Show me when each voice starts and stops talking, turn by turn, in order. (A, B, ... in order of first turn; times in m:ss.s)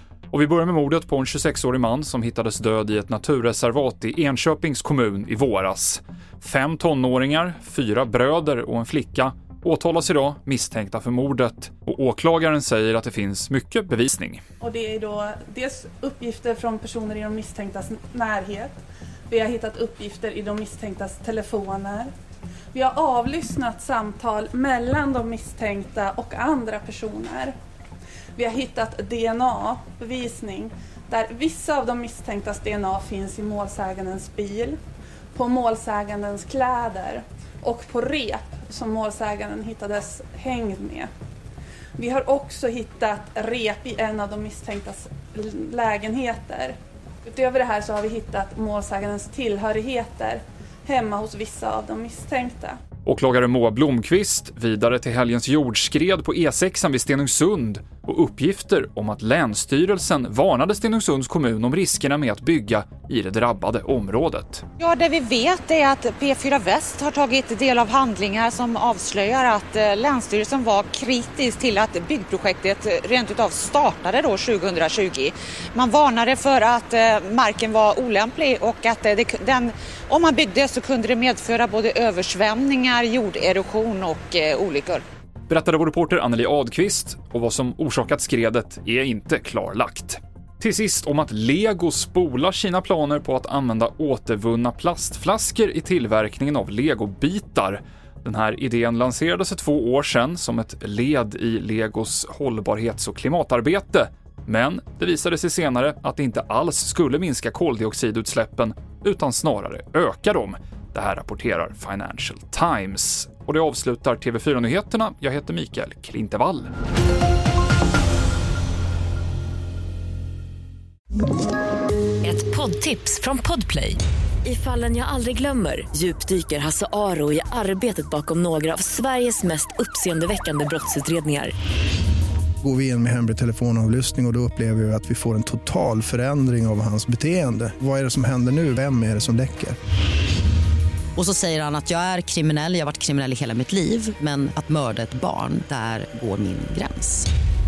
0:00.3-0:14.4 A
0:14.6-0:18.8 B
0:19.3-0:22.1 B
0:22.7-0:27.5 B
0:28.4-0:34.8 B
0:35.3-0:41.1 B
0:42.0-0:52.8 B
0:53.0-1:04.6 A
1:04.8-1:25.0 C
1:25.5-1:56.7 A
2:02.2-2:11.5 D
2:12.6-2:19.8 E
2:21.2-2:27.3 F